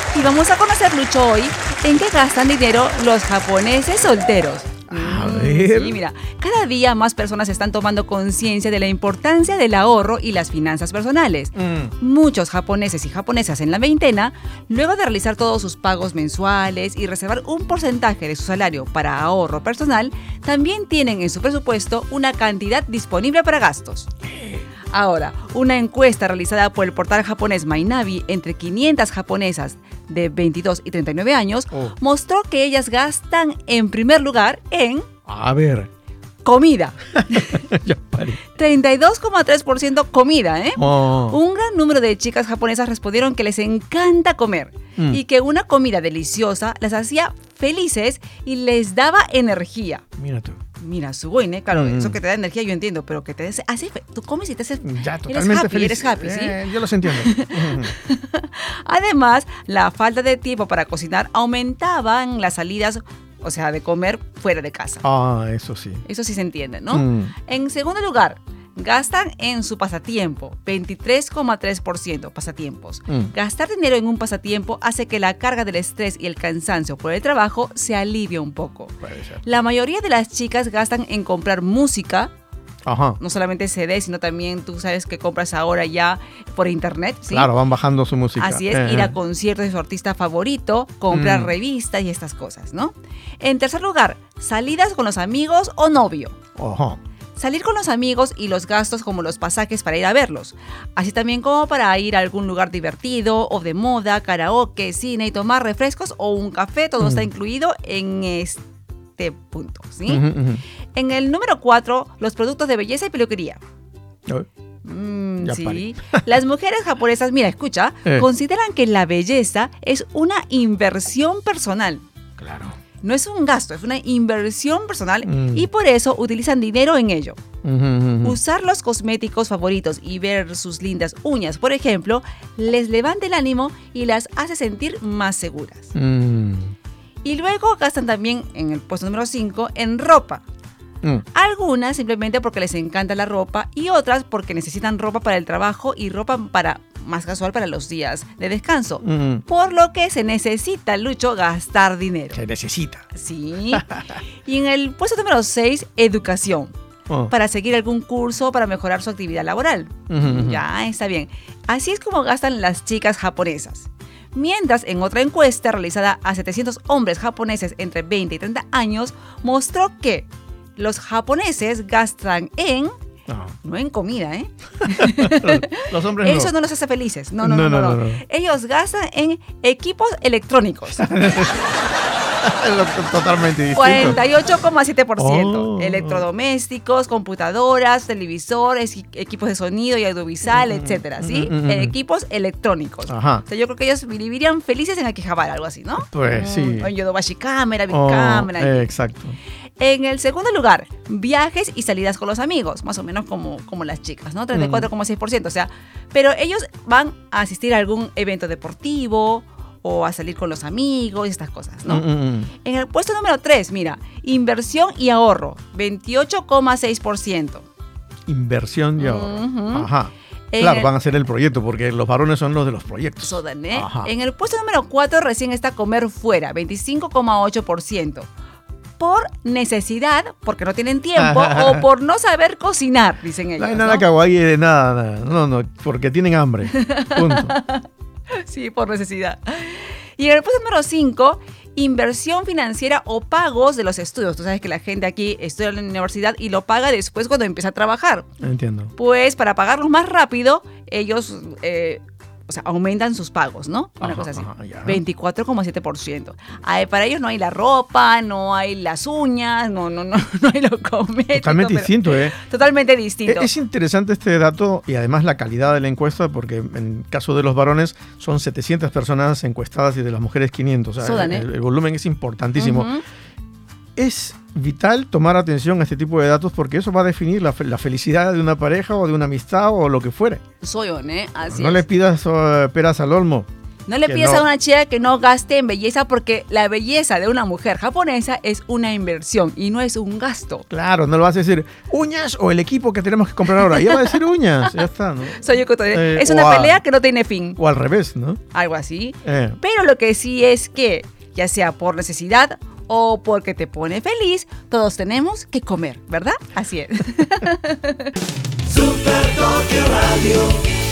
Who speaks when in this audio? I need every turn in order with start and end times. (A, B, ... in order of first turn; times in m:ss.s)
0:00.1-0:24.1 A
0:04.9-0:06.0 B
0:11.5-0:11.9 B
0:24.3-0:24.6 B
0:24.9-0:35.1 A
0:35.3-0:35.9 B
0:36.4-0:37.6 A
0:37.1-0:38.4 B
0:38.4-0:50.0 A
0:40.8-0:41.4 B
0:50.2-0:50.6 B
0:50.8-1:05.0 A
0:51.7-0:52.1 B
0:54.8-0:57.9 B
1:05.0-1:06.0 B
1:06.0-1:22.3 A
1:06.9-1:07.3 B
1:19.0-1:19.4 B
1:22.8-1:23.2 B
1:23.2-1:27.5 A
1:27.3-1:29.2 B
1:28.4-1:36.4 A
1:31.1-1:31.5 B
1:36.6-1:37.0 B
1:37.4-1:48.6 A
1:47.0-1:47.3 B
1:49.2-1:50.3 A
1:50.1-1:50.6 B
1:50.9-1:53.6 A
1:54.8-2:02.0 A
1:55.4-1:56.2 B
2:02.4-2:02.8 B
2:03.0-2:07.4 A
2:05.2-2:05.7 B
2:07.6-2:08.4 B
2:08.2-2:15.9 A
2:15.9-2:16.7 B
2:17.2-2:20.4 A
2:21.3-2:32.4 A
2:29.0-2:29.4 B
2:32.3-2:33.0 B
2:33.1-2:33.9 A
2:33.7-2:34.2 B
2:34.4-2:36.7 A
2:37.3-2:52.9 A
2:40.1-2:40.6 B
2:53.3-2:53.6 B
2:53.6-3:01.1 A
2:54.8-2:56.5 B
2:57.4-2:58.2 B
3:00.9-3:01.7 B
3:02.4-3:04.2 B
3:03.7-3:18.9 A
3:05.2-3:06.2 B
3:10.5-3:11.9 B
3:13.1-3:13.4 B
3:16.1-3:16.9 B
3:17.9-3:19.4 B
3:19.8-3:37.7 A
3:24.5-3:24.9 B
3:31.8-3:32.5 B
3:38.3-3:44.1 B
3:39.0-3:39.9 A
3:40.5-3:40.9 A
3:43.2-3:48.3 A
3:49.0-3:54.0 A
3:51.2-3:51.8 B
3:53.6-3:57.6 B
3:56.7-4:08.3 A
4:08.4-4:08.9 B
4:09.0-4:23.5 A
4:14.0-4:15.0 B
4:21.3-4:22.4 B
4:23.3-4:32.9 B
4:31.0-4:31.5 A
4:32.6-4:33.0 A
4:34.0-4:40.4 B
4:40.6-4:41.8 A
4:41.4-4:43.5 B
4:43.9-4:50.7 A
4:44.0-4:44.4 B
4:50.7-4:56.8 B
4:53.6-4:54.2 A
4:55.3-4:57.6 A
4:57.6-4:58.4 B
4:58.5-5:08.1 A
4:59.2-4:59.6 B
5:08.8-5:10.5 B